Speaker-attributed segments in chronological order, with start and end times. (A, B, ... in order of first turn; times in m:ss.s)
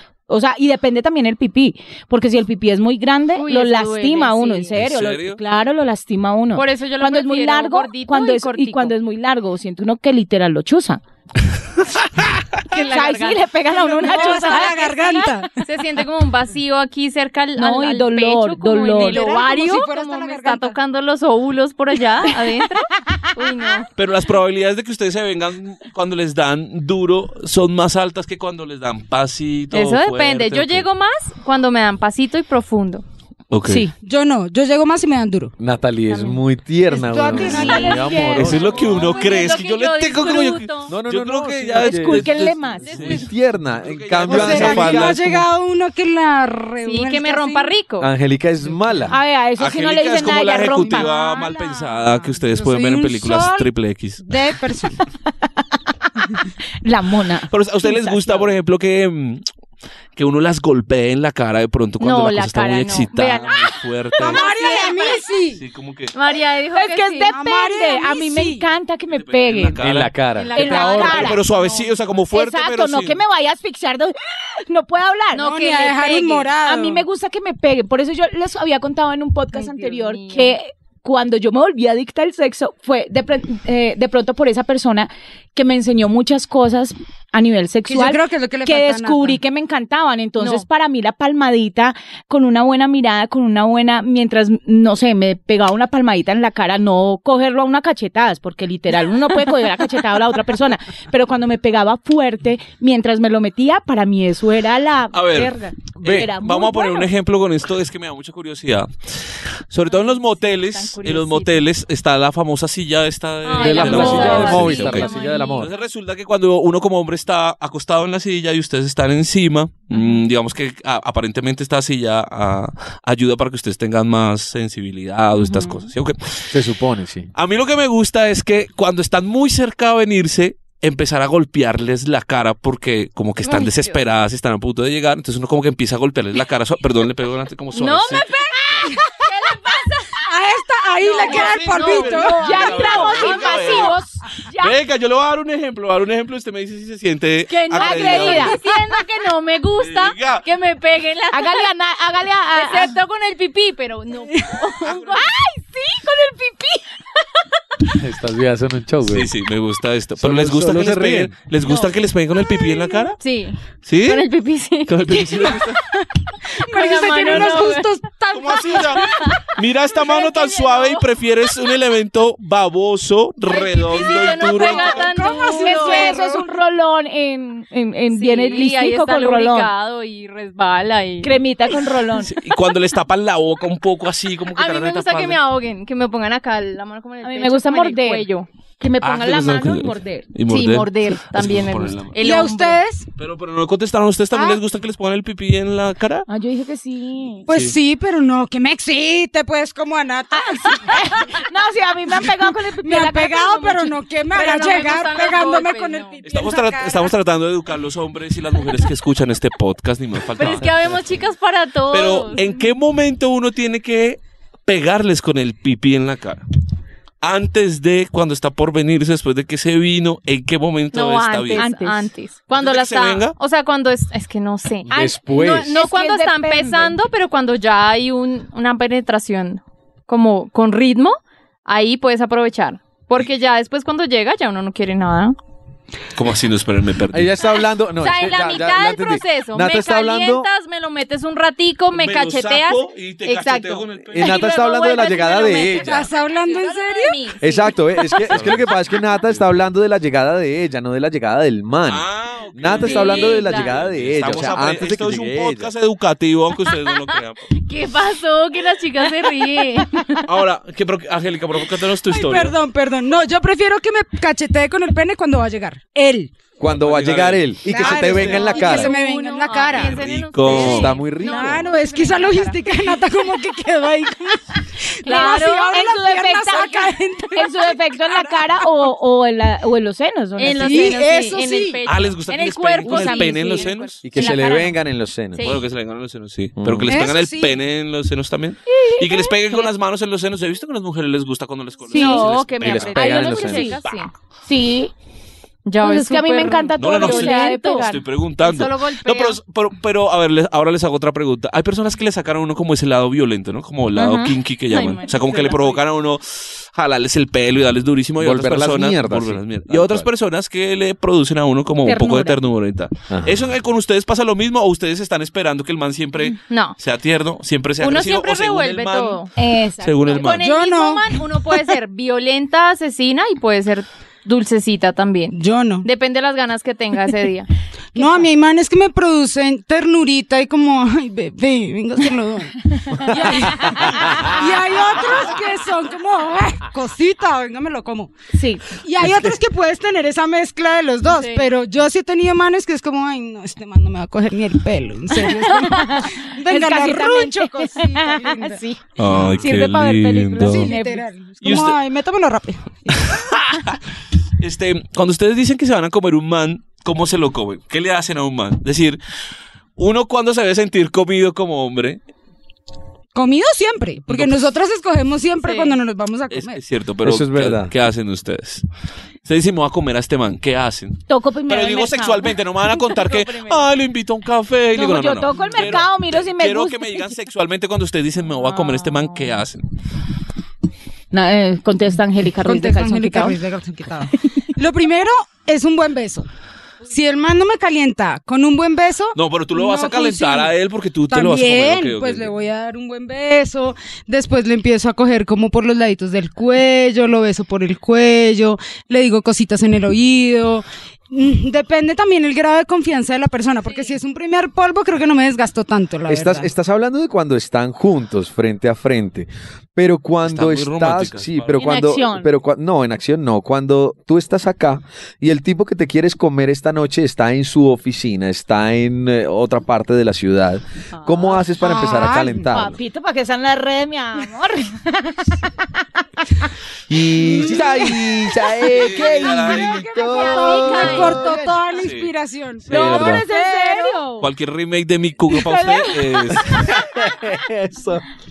0:00.3-0:11.0 A
0:03.4-0:04.8 B
0:04.8-0:05.4 C
0:06.5-0:09.0 B
0:12.7-0:23.9 B
0:12.7-0:15.2 A
0:14.0-0:15.6 D
0:17.6-0:19.4 A
0:19.0-0:20.8 D
0:24.0-0:30.9 C
0:29.7-0:33.0 B
0:33.5-0:33.9 C
0:33.9-0:35.5 D
0:35.6-0:38.8 E
0:36.1-0:36.4 B
0:36.9-0:38.8 D
0:37.4-0:41.0 B
0:37.4-0:39.2 A
0:38.4-0:45.4 C
0:40.9-0:45.4 E
0:41.8-0:42.9 A
0:42.9-0:43.2 B
0:44.2-0:47.7 D
0:46.8-0:48.1 B
0:48.0-0:49.2 E
0:49.1-0:51.1 A
0:49.6-0:54.2 C
0:50.8-0:53.7 D
0:54.2-0:55.0 D
0:56.2-0:58.5 A
0:57.5-0:59.4 C
1:00.2-1:04.5 C
1:02.0-1:05.2 B
1:04.2-1:05.6 D
1:05.5-1:06.1 C
1:06.1-1:07.3 B
1:06.7-1:09.8 A
1:07.3-1:08.7 D
1:09.1-1:10.2 C
1:09.8-1:11.4 E
1:10.4-1:12.0 B
1:10.6-1:11.4 A
1:11.0-1:13.2 C
1:12.3-1:15.5 A
1:15.3-1:16.5 B
1:15.4-1:17.0 D
1:16.6-1:47.1 A
1:19.6-1:20.6 B
1:27.9-1:29.4 D
1:30.4-1:30.6 B
1:45.1-2:06.6 C
1:46.0-1:46.3 E
1:49.9-1:51.6 B
1:53.4-1:55.8 B
1:53.6-1:55.7 E
1:54.0-1:54.3 A
1:59.9-2:00.2 B
2:05.4-2:05.9 B
2:06.5-2:07.3 E
2:07.3-2:18.9 C
2:13.4-2:14.0 B
2:17.7-2:19.6 B
2:18.4-2:19.1 D
2:19.2-2:20.2 A
2:20.2-2:22.7 D
2:21.0-2:24.0 B
2:21.1-2:24.0 C
2:22.3-2:24.8 A
2:24.6-2:28.6 C
2:27.5-2:31.7 B
2:27.7-2:28.6 A
2:29.8-2:30.5 C
2:31.3-2:33.0 A
2:32.5-2:35.4 B
2:34.3-2:34.7 D
2:34.8-2:35.2 C
2:35.2-2:36.8 A
2:38.0-2:39.3 E
2:39.0-2:43.2 C
2:40.2-2:41.4 E
2:43.2-2:45.6 B
2:43.8-2:44.3 C
2:44.9-2:45.8 C
2:46.6-2:49.3 D
2:46.6-2:48.0 B
2:47.3-2:47.6 C
2:48.3-2:55.3 C
2:49.0-2:51.1 B
2:53.5-2:56.2 B
2:54.0-2:56.5 D
2:55.6-2:59.7 A
2:58.1-3:01.4 B
3:01.2-3:02.3 A
3:02.3-3:05.4 C
3:04.5-3:08.5 B
3:07.2-3:08.3 A
3:08.8-3:10.3 A
3:09.0-3:12.2 C
3:10.5-3:12.8 B
3:12.2-3:13.1 D
3:13.2-3:16.3 C
3:14.3-3:14.6 A
3:16.3-3:17.5 A
3:17.5-3:21.2 D
3:17.5-3:17.8 C
3:20.3-3:23.9 A
3:22.2-3:27.1 D
3:24.3-3:26.2 B
3:26.2-3:31.2 C
3:30.3-3:32.5 B
3:31.9-3:36.4 C
3:37.2-3:41.7 C
3:40.9-3:55.4 B
3:41.5-3:42.1 A
3:42.5-3:43.4 C
3:44.9-3:45.8 E
3:44.9-3:47.0 A
3:56.2-3:57.4 C
3:57.1-4:00.5 E
3:58.0-4:08.5 B
4:01.9-4:04.5 C
4:04.1-4:06.1 E
4:05.8-4:07.2 D
4:07.4-4:15.7 E
4:08.3-4:09.4 C
4:11.9-4:17.5 C
4:12.8-4:13.8 B
4:16.7-4:17.0 B
4:17.6-4:20.2 B
4:20.2-4:22.6 C
4:22.1-4:26.3 D
4:26.6-4:28.9 E
4:26.7-4:28.7 C
4:27.7-4:38.7 D
4:28.4-4:32.8 B
4:29.7-4:31.0 C
4:30.4-4:31.7 E
4:35.0-4:35.8 B
4:35.0-4:41.0 A
4:40.4-4:44.8 B
4:40.6-4:41.8 D
4:41.8-4:44.0 C
4:42.8-4:43.6 A
4:44.0-4:45.6 E
4:45.4-4:45.6 B
4:45.4-4:53.0 C
4:46.6-4:46.9 E
4:46.9-4:47.6 D
4:48.7-4:49.7 B
4:51.9-4:54.1 B
4:51.9-4:52.3 A
4:52.4-4:53.8 E
4:52.9-4:53.8 A
4:54.5-4:54.9 A
4:55.6-4:59.4 B
4:55.8-4:58.0 A
4:56.8-5:19.2 C
5:04.0-5:05.8 B
5:08.2-5:10.1 E
5:11.8-5:12.4 A
5:13.1-5:13.5 E
5:16.3-5:16.8 B
5:17.8-5:19.3 B
5:19.4-5:20.3 A
5:19.8-5:20.4 C
5:20.2-5:27.5 B
5:20.4-5:21.2 D
5:25.3-5:25.9 D
5:27.9-5:38.1 D
5:28.0-5:28.2 A
5:32.8-5:34.3 A
5:33.1-5:34.4 E
5:38.3-5:38.6 A
5:38.8-5:48.6 D
5:39.0-5:39.3 E
5:41.1-5:41.5 B
5:45.3-5:51.0 A
5:49.0-5:50.7 C
5:50.4-5:53.2 D
5:51.4-5:51.8 C
5:52.9-5:53.8 C
5:54.4-5:59.0 C
5:59.8-6:02.0 C
6:03.1-6:06.6 D
6:04.1-6:04.5 C
6:05.4-6:05.8 B
6:06.3-6:08.6 C
6:07.0-6:07.7 E
6:09.3-6:19.6 C
6:11.1-6:13.7 A
6:14.8-6:17.0 A
6:21.1-6:23.4 A
6:22.4-6:26.3 D
6:26.9-6:30.5 D
6:29.2-6:32.3 C
6:31.1-6:46.5 D
6:43.6-6:44.0 B
6:46.1-7:02.8 E
6:50.3-6:51.7 C
6:51.6-6:52.3 A
7:01.6-7:02.5 D
7:02.5-7:06.5 A
7:06.9-7:11.3 E
7:07.2-7:08.1 A
7:08.6-7:09.9 C
7:09.2-7:14.0 D
7:10.0-7:11.6 A
7:10.4-7:11.1 B
7:11.7-7:12.1 C
7:12.6-7:13.3 C
7:12.7-7:14.3 A
7:14.2-7:16.8 C
7:15.3-7:16.5 A
7:16.6-7:18.0 E